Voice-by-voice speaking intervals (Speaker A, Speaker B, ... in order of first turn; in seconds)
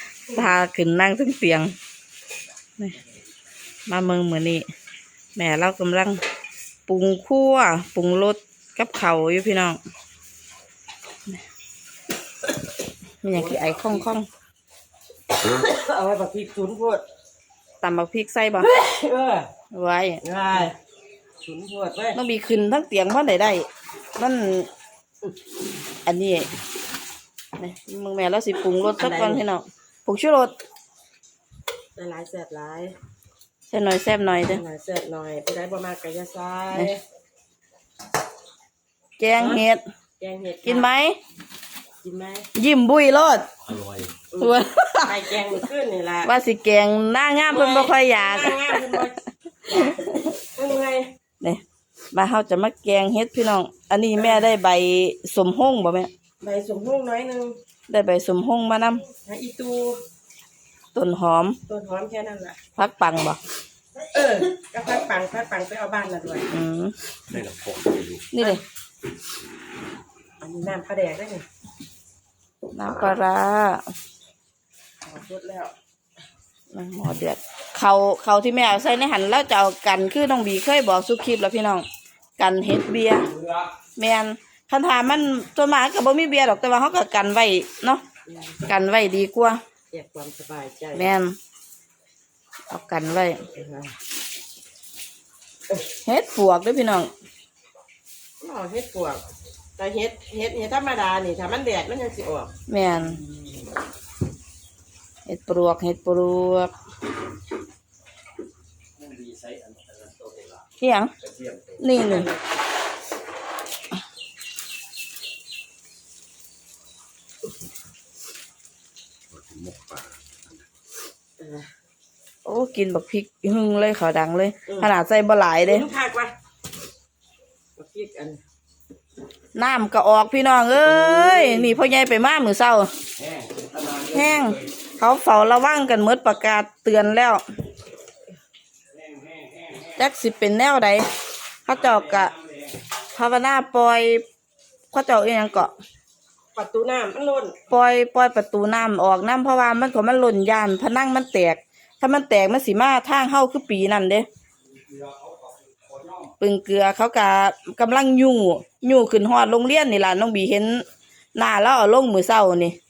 Speaker A: 0.3-1.7, 3.9-4.6, 5.3-6.2, 6.9-9.8, 13.2-14.3, 17.8-18.7, 19.7-20.2, 22.1-24.7, 26.0-26.5, 27.6-30.5, 33.7-34.6, 39.2-39.8, 40.6-41.2, 42.5-43.5, 44.4-45.6, 46.2-48.9, 49.7-50.3, 52.1-56.1, 57.9-59.0, 60.9-61.6, 62.8-63.4, 66.5-66.9, 68.3-68.6, 72.7-73.8, 76.7-81.8, 82.4-83.3, 84.0-88.0, 88.6-89.6, 90.9-91.3, 92.7-93.4, 96.0-97.1, 102.7-103.2, 105.2-106.7, 110.8-111.1, 111.8-112.3, 122.4-125.9, 129.6-132.9, 134.1-137.4, 139.9-141.1, 141.7-142.3, 143.1-144.2, 144.9-145.7, 147.7-154.2, 156.4-160.8, 161.3-162.8
Speaker B: 13.3-14.1, 15.4-17.0, 18.6-19.5, 20.2-20.7, 21.4-22.2, 29.0-29.4, 31.9-32.9, 34.5-37.0, 39.4-39.6, 40.2-40.9, 42.0-42.5, 44.3-46.3, 47.5-51.1, 54.2-54.5, 56.4-57.6, 59.2-60.0, 61.7-62.6, 64.0-66.5, 70.4-71.4, 75.0-75.7, 88.3-88.6, 89.9-91.1, 93.5-93.9, 98.4-99.2, 99.8-102.5, 112.1-112.4, 121.4-121.7, 125.7-126.3, 127.8-128.4, 130.8-131.7, 146.6-147.6
Speaker C: 43.7-44.1, 67.3-68.3, 109.0-110.6, 111.2-111.8, 119.3-120.2, 133.2-134.2, 139.1-139.7